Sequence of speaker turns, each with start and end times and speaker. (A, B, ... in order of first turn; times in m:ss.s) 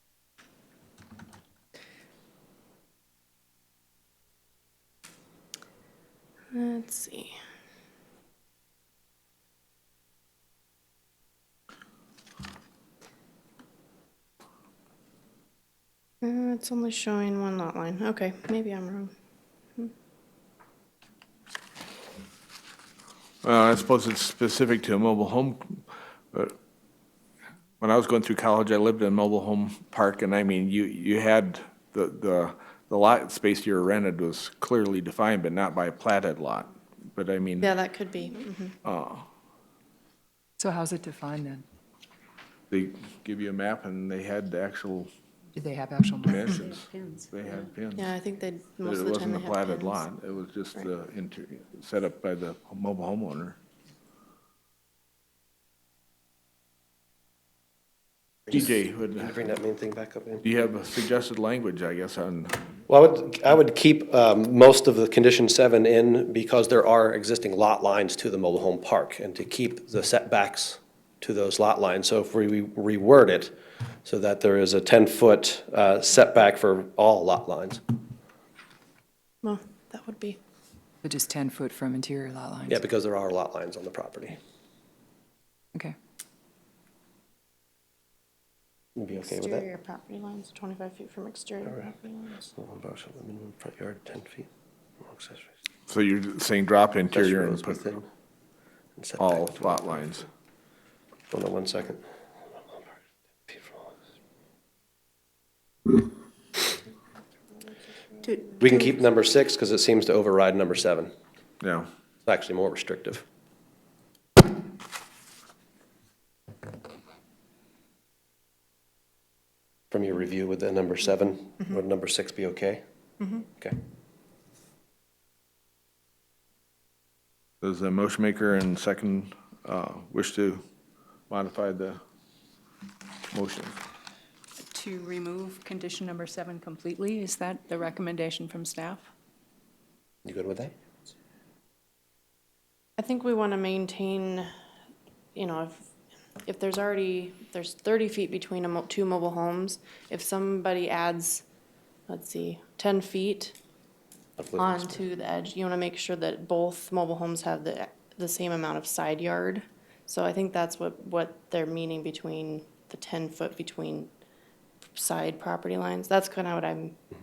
0:06.5-0:07.4 A
0:16.2-0:19.1 A
0:23.4-0:26.5 B
0:27.8-0:37.7 B
0:37.6-0:38.7 A
0:38.8-0:39.3 B
0:40.6-0:41.6 C
0:42.7-0:45.1 B
0:45.6-0:46.7 C
0:46.2-0:48.1 B
0:48.0-0:50.0 A
0:48.8-0:53.6 B
0:58.5-0:59.4 B
0:59.2-1:00.4 D
1:00.4-1:02.6 B
1:02.9-1:17.8 D
1:19.4-1:20.4 A
1:21.0-1:22.8 C
1:22.7-1:24.4 D
1:29.0-1:29.7 D
1:29.1-1:32.4 A
1:32.4-1:34.5 D
1:35.0-1:35.5 D
1:35.9-1:37.8 B
1:37.1-1:38.0 D
1:39.0-1:40.0 D
1:39.2-1:40.3 B
1:41.3-1:42.0 D
1:42.5-1:42.9 D
1:43.5-1:43.9 D
1:48.6-1:51.1 D
1:51.6-1:51.9 B
1:52.3-1:53.2 D
1:59.9-2:02.8 D
2:03.3-2:03.8 D
2:07.6-2:10.6 B
2:11.3-2:12.0 B
2:13.3-2:13.8 B
2:14.7-2:19.1 E
2:20.2-2:20.7 D
2:23.0-2:24.5 A
2:25.3-2:25.9 A
2:26.4-2:31.4 A
2:32.1-2:33.6 A
2:34.4-2:34.8 D
2:34.6-2:44.1 A
2:45.0-2:47.0 A